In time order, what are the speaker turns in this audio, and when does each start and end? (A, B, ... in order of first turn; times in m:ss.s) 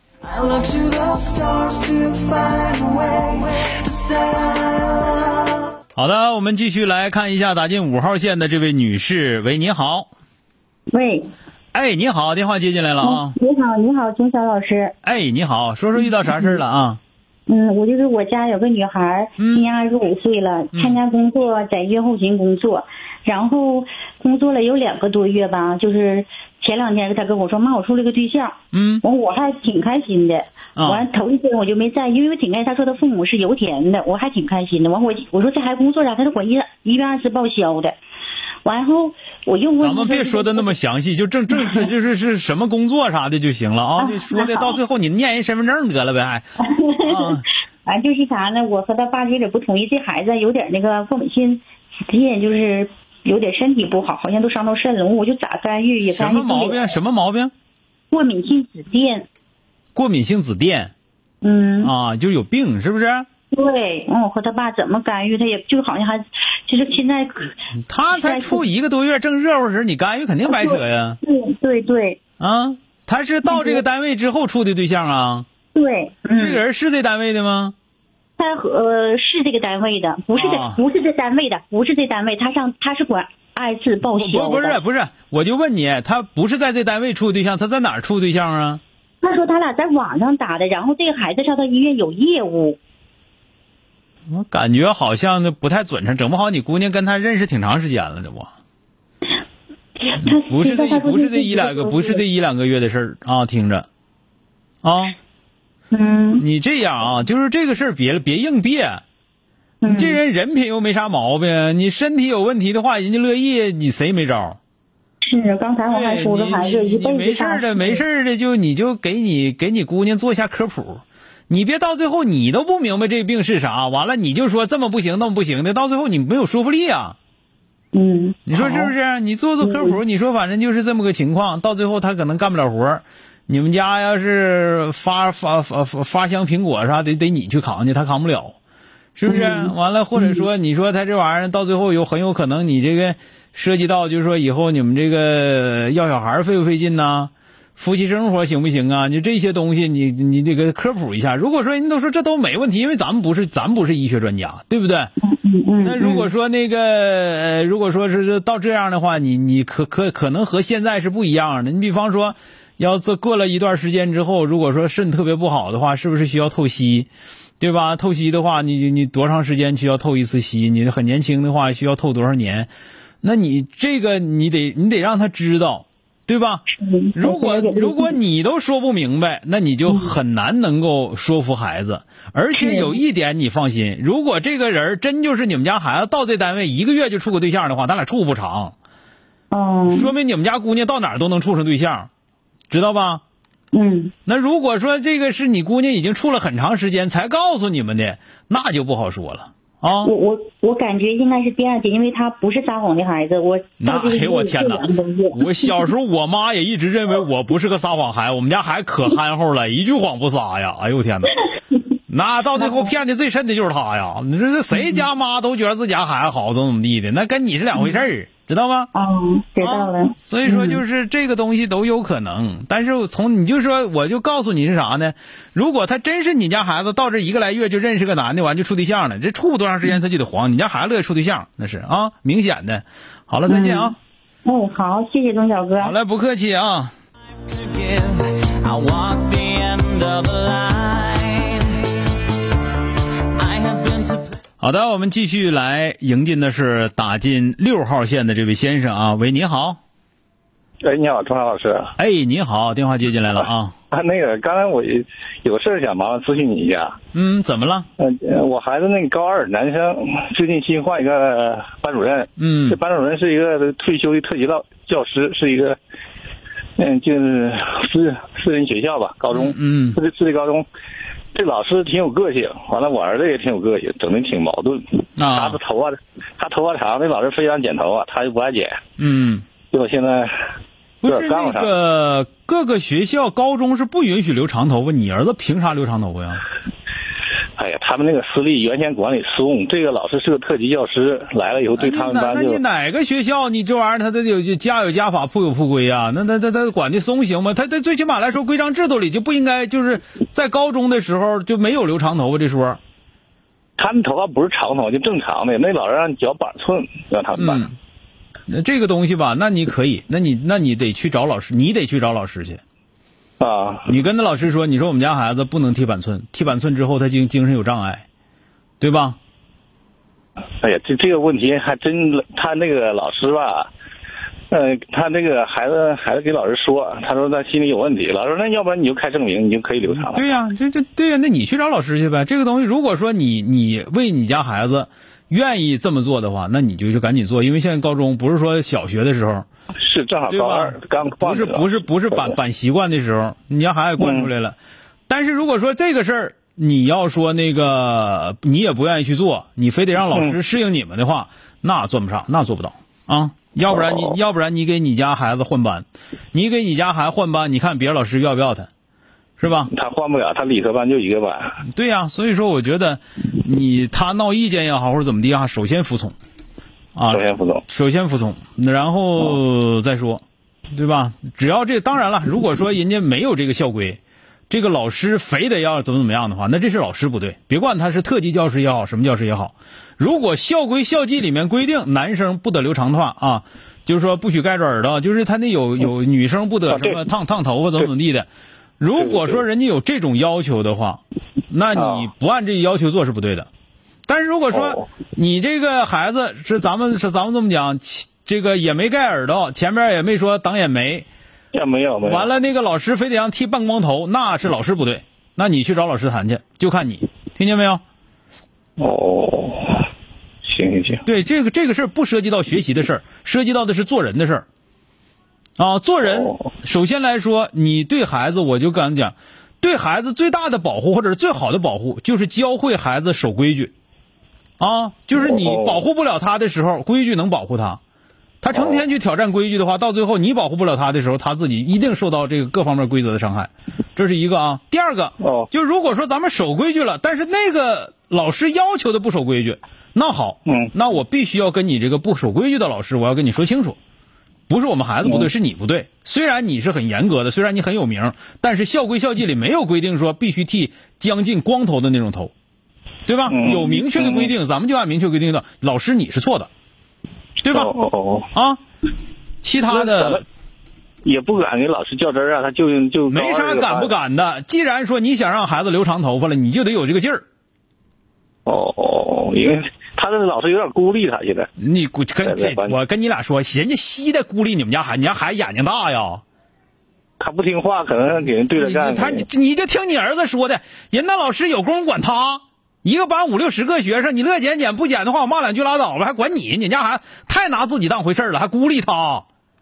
0:00.2-0:05.6 A
0:06.0-0:10.1 B
0:10.9-0:11.3 C
0:11.7-0:13.4 B
0:13.0-0:15.0 C
0:15.0-0:17.0 B
0:17.5-0:38.0 C
0:19.4-0:19.7 B
0:28.7-0:29.0 B
0:30.8-0:31.1 B
0:38.6-0:40.8 C
0:39.8-0:47.4 B
0:41.5-0:41.9 C
0:44.0-0:44.8 C
0:46.6-0:56.9 C
0:56.1-0:57.5 B
0:58.1-0:59.3 C
1:00.0-1:00.9 B
1:01.4-1:01.9 C
1:01.8-1:03.3 B
1:03.5-1:07.6 C
1:07.8-1:11.2 B
1:08.1-1:08.6 C
1:10.5-1:12.2 C
1:12.4-1:15.5 B
1:13.4-1:13.8 C
1:15.7-1:16.6 C
1:16.4-1:17.8 B
1:18.4-1:24.8 C
1:20.4-1:20.8 B
1:24.1-1:28.8 B
1:29.2-1:32.8 C
1:34.3-1:38.5 B
1:40.0-1:42.2 C
1:40.2-1:43.9 B
1:44.8-1:45.2 B
1:45.9-1:46.4 C
1:46.4-1:49.0 B
1:49.8-1:50.2 C
1:49.9-1:54.6 B
1:55.2-1:58.0 C
1:55.9-2:07.2 B
2:07.9-2:08.9 C
2:08.5-2:18.6 B
2:09.6-2:10.0 C
2:19.2-2:35.1 B
2:19.3-2:20.5 C
2:35.2-2:36.3 C
2:35.8-2:47.1 B
2:47.6-2:52.7 B
2:53.2-2:56.6 B
2:56.8-2:58.2 C
2:57.2-3:08.7 B
2:59.9-3:00.1 C
3:02.5-3:03.0 C
3:09.5-3:10.1 C
3:09.9-3:12.1 B
3:12.7-3:13.2 B
3:13.7-3:14.1 C
3:14.3-3:20.1 B
3:20.0-3:25.8 C
3:23.8-3:31.4 B
3:32.1-3:38.9 B
3:32.6-3:32.9 C
3:38.9-3:40.8 C
3:39.6-3:54.0 B
3:53.5-3:56.0 C
3:55.8-3:56.9 B
3:57.4-4:01.9 A
4:03.2-4:04.4 A
4:04.6-4:09.8 B
4:10.8-4:11.9 D
4:12.0-4:13.7 B
4:13.9-4:17.0 D
4:17.1-4:17.9 B
4:18.0-4:25.8 D
4:22.4-4:22.8 B
4:26.8-4:30.7 D
4:29.3-4:30.0 B
4:31.3-4:38.8 D
4:35.2-4:35.6 B
4:39.0-4:39.5 B
4:39.7-4:40.3 D
4:41.0-4:46.4 B
4:41.1-4:41.7 D
4:47.6-4:52.6 D
4:51.8-5:02.8 B
5:03.8-5:07.7 D
5:07.4-5:07.8 B
5:08.5-5:12.6 B
5:13.4-5:13.9 D
5:13.9-5:18.0 B
5:18.8-5:19.2 B
5:20.6-5:23.7 D
5:24.5-5:30.2 D
5:29.9-5:39.5 B
5:39.8-5:42.3 D
5:40.3-5:44.6 B
5:44.0-5:44.3 D
5:45.1-5:58.7 B
5:59.4-5:59.7 B
5:59.7-6:01.6 D
6:01.7-6:06.2 B
6:07.0-6:28.3 B
6:07.1-6:07.6 D
6:26.7-6:27.0 D
6:28.8-6:33.5 B
6:29.0-6:29.4 D
6:31.8-6:32.1 D
6:34.1-6:41.1 B
6:34.5-6:34.8 D
6:41.5-6:42.3 D
6:42.0-6:47.8 B
6:48.8-6:49.9 D
6:50.4-6:51.0 D
6:51.0-6:54.5 B
6:55.6-7:03.7 B
6:56.1-6:56.5 D
7:04.6-7:07.8 B
7:05.2-7:05.8 D
7:08.4-7:23.8 B
7:08.5-7:08.8 D
7:15.2-7:15.5 D
7:20.5-7:20.7 D
7:24.5-7:32.3 B
7:33.1-7:36.5 B
7:33.3-7:34.3 D
7:37.4-7:37.7 B
7:37.5-7:38.3 D
7:38.3-7:38.6 B
7:39.4-7:40.2 B
7:39.7-7:40.2 D
7:41.0-7:43.9 D
7:43.1-7:47.2 B
7:48.5-7:51.5 D
7:51.6-7:56.2 B
7:52.2-7:52.8 D
7:57.2-7:59.2 D
7:58.3-8:09.3 B